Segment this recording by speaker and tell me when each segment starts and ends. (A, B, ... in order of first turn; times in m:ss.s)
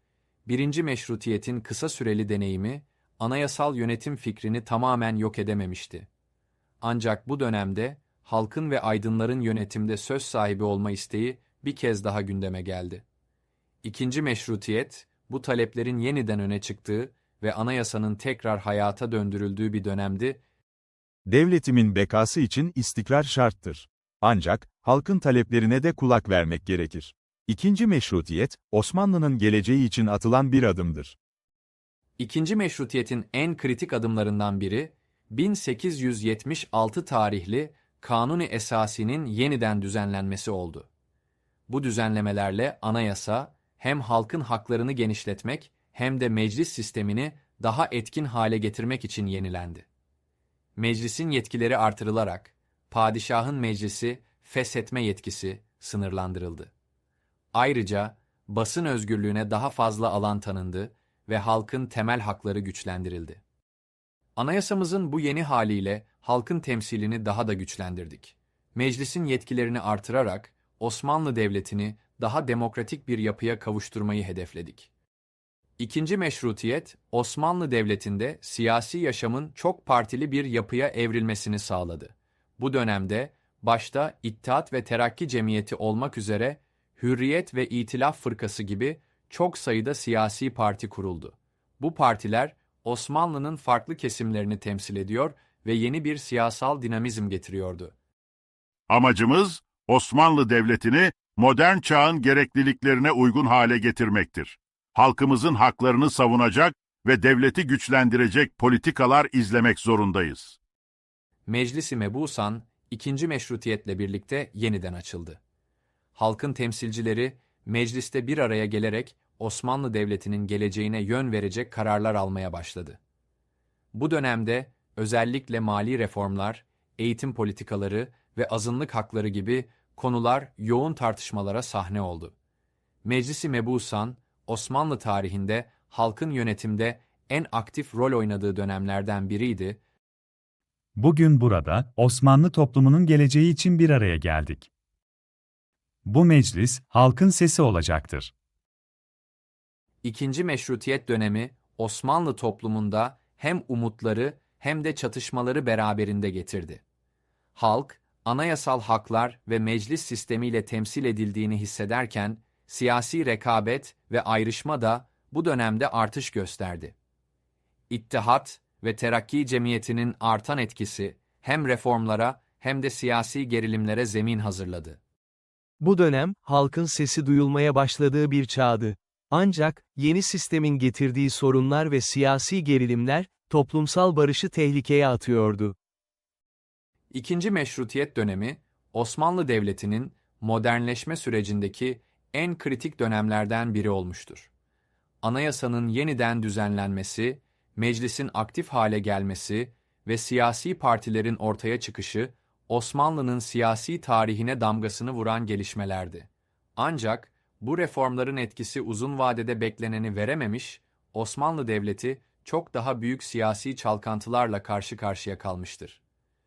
0:00.5-0:06.1 A
0:06.8-0:13.0 A
0:13.8-0:20.4 A
0:21.3-0:31.2 B
0:32.2-0:40.9 A
0:41.7-0:49.9 A
0:50.8-0:56.7 A
0:57.5-1:03.4 A
1:04.4-1:14.9 A
1:15.8-1:37.9 A
1:38.9-1:50.6 C
1:51.5-1:55.4 A
1:56.2-2:03.0 A
2:03.9-2:12.3 A
2:13.0-2:19.8 A
2:21.0-2:24.7 D
2:26.1-2:28.3 D
2:30.0-2:36.8 A
2:37.6-2:46.9 A
2:47.9-2:55.0 A
2:55.8-3:05.7 E
3:07.1-3:14.5 A
3:15.2-3:36.0 A